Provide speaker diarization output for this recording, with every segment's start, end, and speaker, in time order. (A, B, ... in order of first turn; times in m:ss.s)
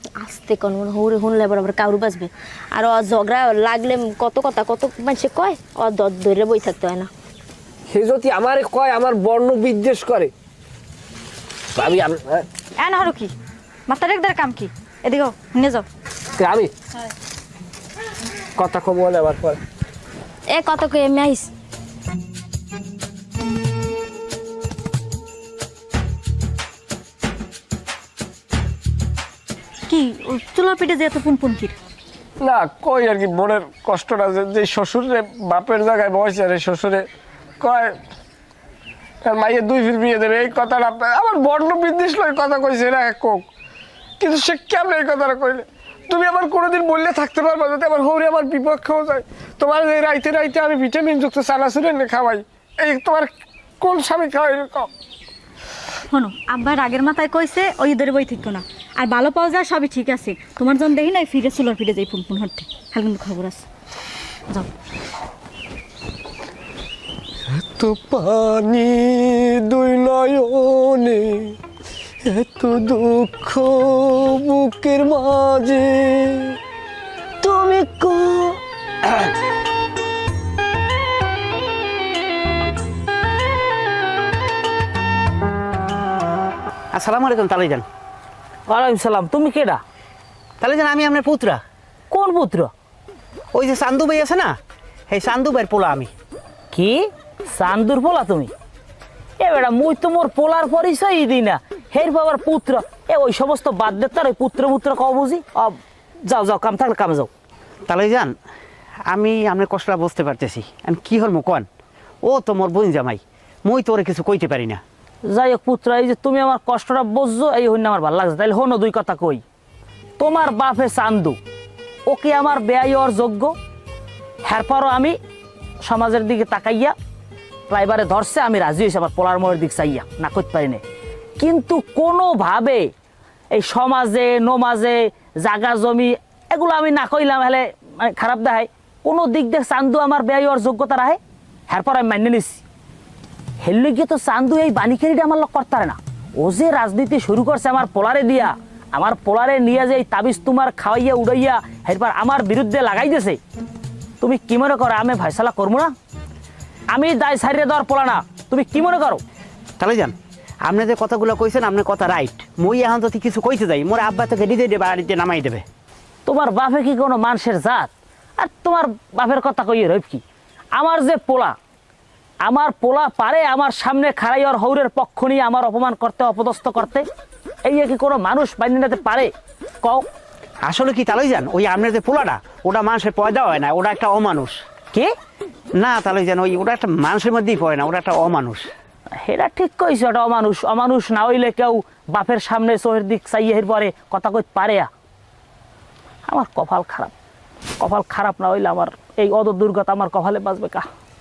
0:00.2-0:07.1 A
0:07.9-0:10.3 B
0:11.8-0:12.5 B
0:12.8-0:13.3 C
0:13.9-0:15.9 C
0:16.4-0:16.7 B
0:18.6-0:19.6 B
0:20.5-0:21.5 A
0:29.9-0:31.8 C
0:32.4-0:37.1 B
0:37.6-0:38.0 B
0:39.2-0:43.5 B
0:44.2-0:53.3 B
0:53.8-0:54.9 B
0:56.1-1:03.7 C
1:07.6-1:11.6 B
1:12.3-1:16.6 B
1:17.4-1:18.6 B
1:26.9-1:27.8 D
1:28.7-1:29.8 E
1:30.6-1:31.6 D
1:32.1-1:32.7 E
1:33.5-1:34.6 D
1:35.1-1:36.1 D
1:36.7-1:38.5 E
1:39.4-1:47.3 E
1:47.9-1:48.4 D
1:49.1-1:51.7 D
1:52.2-1:54.8 D
1:55.3-1:59.4 E
2:00.2-2:01.4 E
2:02.1-2:03.6 E
2:04.4-2:05.2 E
2:05.8-2:07.0 E
2:07.7-2:10.8 E
2:11.4-2:12.9 E
2:13.5-2:22.6 E
2:23.6-2:33.4 E
2:34.2-2:35.9 E
2:36.9-2:39.2 E
2:39.8-2:45.6 D
2:46.3-2:50.2 E
2:50.8-2:51.6 E
2:52.4-2:57.1 E
2:57.6-3:00.1 E
3:00.6-3:04.6 D
3:05.7-3:08.7 D
3:09.2-3:14.9 E
3:16.3-3:17.1 E
3:17.8-3:20.9 E